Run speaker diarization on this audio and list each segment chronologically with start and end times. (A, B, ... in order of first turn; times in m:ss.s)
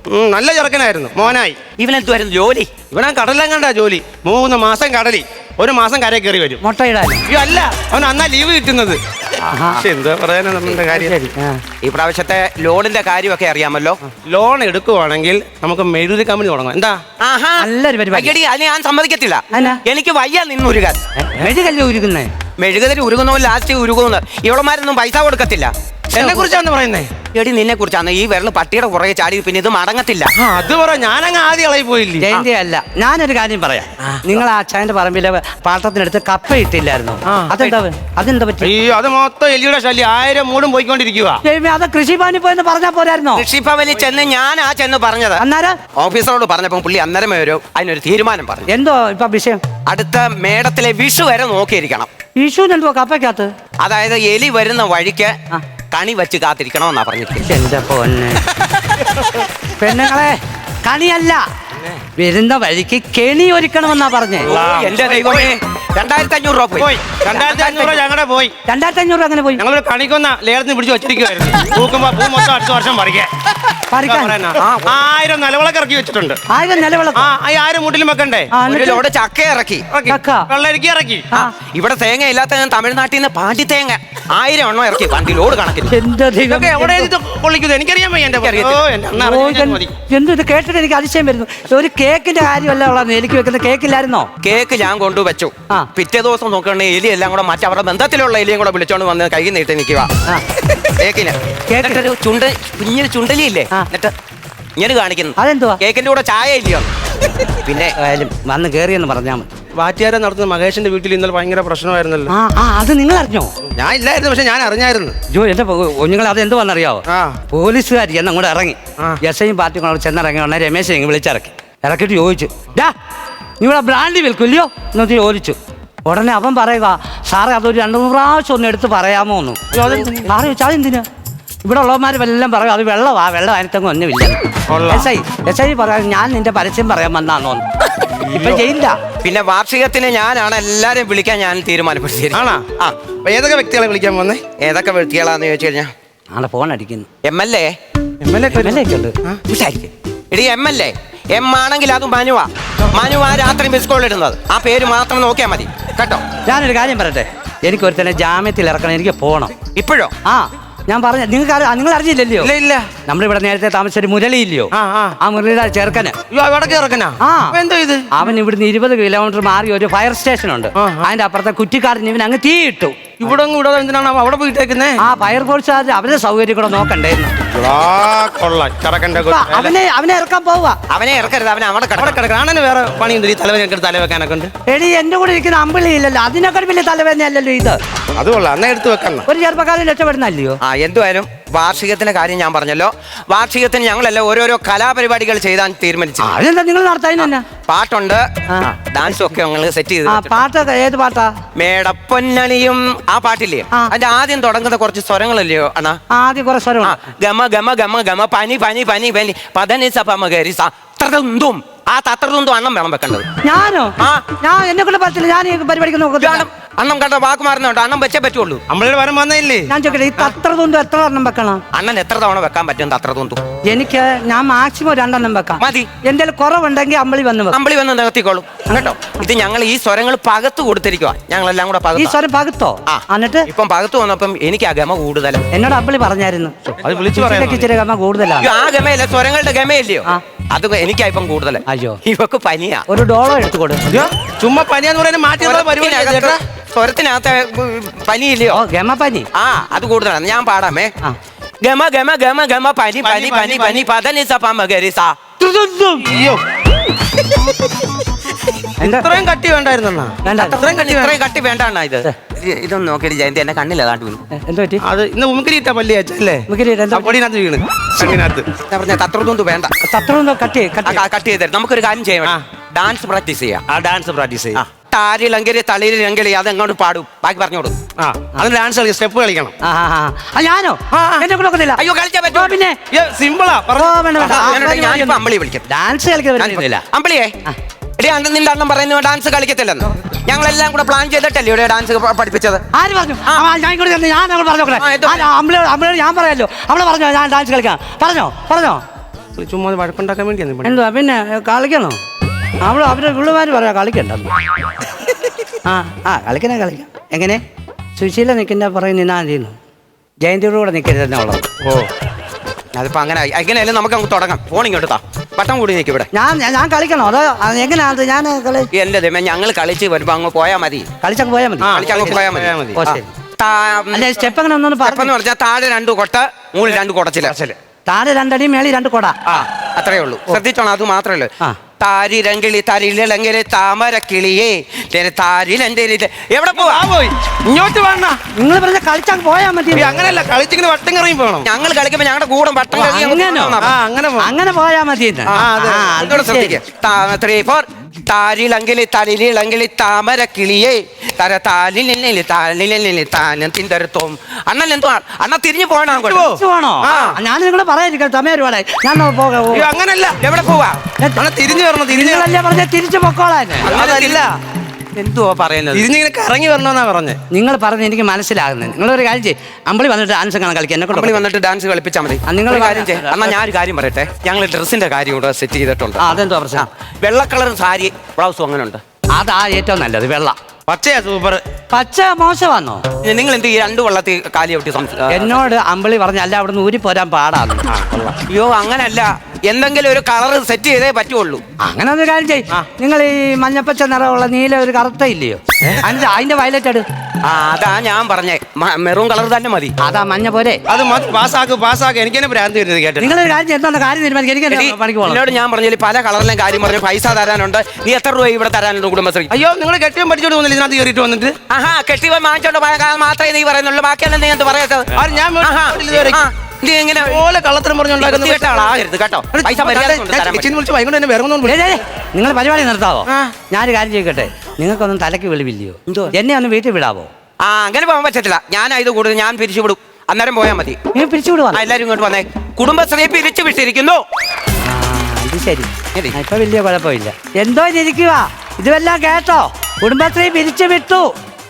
0:00.1-0:01.6 A
0:01.8-0:02.8 B
0:02.9-0:06.6 A
0:06.6-0:07.3 C
0:07.3-0:09.0 A
0:09.5-0:09.8 C
0:09.7-0:11.3 A
0:11.0-0:11.6 C
0:11.8-0:14.0 B
0:14.1-0:17.0 A
0:17.2-0:21.0 B
0:17.6-0:18.4 C
0:19.5-0:19.8 C
0:21.2-0:22.3 C
0:22.6-0:25.7 B
0:26.1-0:27.1 A
0:26.2-0:26.5 C
0:27.3-0:30.3 B
0:30.4-0:32.3 A
0:32.2-0:38.7 C
0:37.3-0:37.8 A
0:38.6-0:41.4 A
0:41.4-0:43.5 C
0:43.4-0:45.4 B
0:45.4-0:45.8 C
0:46.0-0:48.7 B
0:48.7-0:49.6 C
0:49.9-0:52.1 B
0:52.4-0:53.5 C
0:53.8-0:55.3 B
0:55.9-0:57.5 B
0:57.4-0:58.4 C
0:59.8-1:01.4 C
1:02.2-1:04.5 C
1:04.4-1:05.5 A
1:04.5-1:07.9 B
1:06.8-1:08.5 A
1:08.7-1:09.6 C
1:09.6-1:16.4 A
1:13.9-1:14.4 C
1:14.6-1:14.9 B
1:16.5-1:17.3 C
1:17.2-1:18.5 A
1:18.5-1:19.0 C
1:18.6-1:19.9 B
1:19.9-1:21.4 A
1:20.1-1:20.5 C
1:21.6-1:26.0 B
1:25.9-1:27.1 C
1:26.5-1:29.9 A
1:28.4-1:28.8 B
1:29.2-1:34.3 C
1:34.4-1:40.1 B
1:40.7-1:44.1 B
1:41.7-1:42.0 C
1:44.8-1:46.9 B
1:45.4-1:45.8 C
1:47.5-1:48.0 B
1:48.0-1:49.5 C
1:49.8-1:52.3 A
1:52.3-1:53.5 C
1:53.7-1:55.2 A
1:55.3-2:02.9 C
1:57.1-1:57.4 A
2:03.6-2:11.0 C
2:09.7-2:10.3 A
2:11.6-2:17.7 C
2:14.7-2:15.1 A
2:18.3-2:19.0 C
2:18.3-2:18.6 A
2:19.2-2:23.0 B
2:22.3-2:22.7 A
2:23.2-2:24.4 A
2:24.6-2:25.9 B
2:26.3-2:27.1 C
2:27.2-2:27.7 B
2:28.2-2:29.4 A
2:28.6-2:29.1 C
2:29.5-2:36.2 B
2:36.5-2:39.5 C
2:39.8-2:40.1 B
2:40.3-2:42.5 C
2:42.4-2:42.9 A
2:43.1-2:46.2 C
2:44.7-2:45.2 A
2:46.3-2:48.1 A
2:47.2-2:47.6 C
2:48.1-2:53.2 C
2:50.8-2:51.1 A
2:53.2-2:55.0 A
2:55.0-2:57.3 C
2:57.5-2:59.8 A
2:59.3-3:00.8 C
3:00.9-3:02.2 B
3:02.0-3:04.5 A
3:04.7-3:07.8 C
3:08.2-3:09.3 A
3:09.3-3:10.6 C
3:10.6-3:16.3 B
3:16.2-3:17.4 C
3:17.2-3:20.4 B
3:20.1-3:21.3 C
3:21.6-3:26.0 B
3:26.1-3:27.0 C
3:26.8-3:33.3 B
3:33.4-3:36.4 C
3:36.2-3:38.6 B
3:38.7-3:40.3 A
3:39.7-3:41.6 C
3:41.7-3:43.4 B
3:43.7-3:47.6 C
3:45.6-3:45.9 B
3:47.5-3:52.2 B
3:52.0-3:53.5 C
3:52.9-3:55.4 B
3:55.5-3:56.6 C
3:56.7-3:57.7 A
3:57.1-3:58.5 C
3:58.4-4:02.8 B
4:01.7-4:02.0 C
4:02.9-4:03.8 C
4:03.9-4:06.4 A
4:05.4-4:08.6 B
4:08.5-4:09.3 C
4:09.3-4:10.9 B
4:11.6-4:15.2 B
4:13.0-4:13.8 A
4:15.4-4:16.0 C
4:15.9-4:16.4 A
4:18.8-4:19.1 C
4:18.8-4:21.2 A
4:20.2-4:20.6 C
4:20.3-4:24.2 B
4:24.3-4:24.8 C
4:24.8-4:28.5 A
4:26.5-4:27.2 C
4:28.7-4:29.7 B
4:29.8-4:31.0 C
4:30.8-4:33.7 B
4:33.7-4:34.6 A
4:34.6-4:37.7 B
4:38.0-4:39.5 A
4:39.6-4:42.8 C
4:40.9-4:41.3 A
4:41.8-4:42.6 B
4:42.9-4:44.6 A
4:43.8-4:46.8 C
4:44.2-4:45.6 B
4:46.4-4:47.3 B
4:48.0-4:52.6 B
4:52.7-4:58.8 C
4:54.8-4:55.3 B
4:59.4-5:00.8 A
5:00.6-5:02.0 C
5:02.6-5:04.3 C
5:05.6-5:07.4 C
5:08.0-5:09.6 C
5:10.2-5:11.4 C
5:11.6-5:11.9 A
5:12.8-5:16.1 B
5:16.1-5:18.7 C
5:18.7-5:20.9 B
5:21.0-5:22.2 C
5:21.6-5:23.0 A
5:21.7-5:22.6 B
5:22.8-5:23.1 C
5:23.4-5:24.2 B
5:23.9-5:25.1 C
5:24.8-5:27.4 B
5:27.3-5:27.6 A
5:27.9-5:29.2 C
5:29.3-5:36.9 B
5:36.5-5:38.2 A
5:38.4-5:39.9 C
5:39.7-5:41.5 A
5:41.4-5:43.7 B
5:42.7-5:43.6 C
5:43.6-5:44.3 A
5:44.2-5:46.6 C
5:45.3-5:56.3 B
5:45.4-5:46.0 A
5:55.9-5:57.2 A
5:56.3-5:59.7 C
5:56.9-5:57.2 B
5:59.5-6:00.2 A
6:00.2-6:00.8 B
6:01.2-6:02.3 A
6:01.9-6:03.7 C
6:03.6-6:04.3 A
6:03.6-6:04.3 B
6:04.9-6:05.9 B
6:05.7-6:07.2 A
6:07.3-6:11.2 C
6:10.9-6:18.8 B
6:12.3-6:13.4 C
6:16.0-6:16.7 C
6:19.2-6:20.4 C
6:20.7-6:21.4 A
6:21.7-6:22.8 C
6:23.0-6:25.4 B
6:25.1-6:27.6 C
6:27.7-6:28.2 A
6:28.3-6:31.4 B
6:31.6-6:36.8 C
6:37.2-6:39.7 B
6:39.8-6:40.6 C
6:40.7-6:43.2 A
6:43.0-6:45.2 C
6:44.5-6:49.3 B
6:49.3-6:51.4 A
6:51.5-6:57.2 B
6:55.0-6:56.2 A
6:57.0-6:58.7 A
6:58.0-7:00.5 B
6:59.3-7:01.6 A
7:01.4-7:07.1 C
7:03.1-7:03.3 A
7:05.9-7:06.1 B
7:07.4-7:10.8 B
7:10.9-7:11.6 C
7:11.5-7:14.0 B
7:14.6-7:21.1 C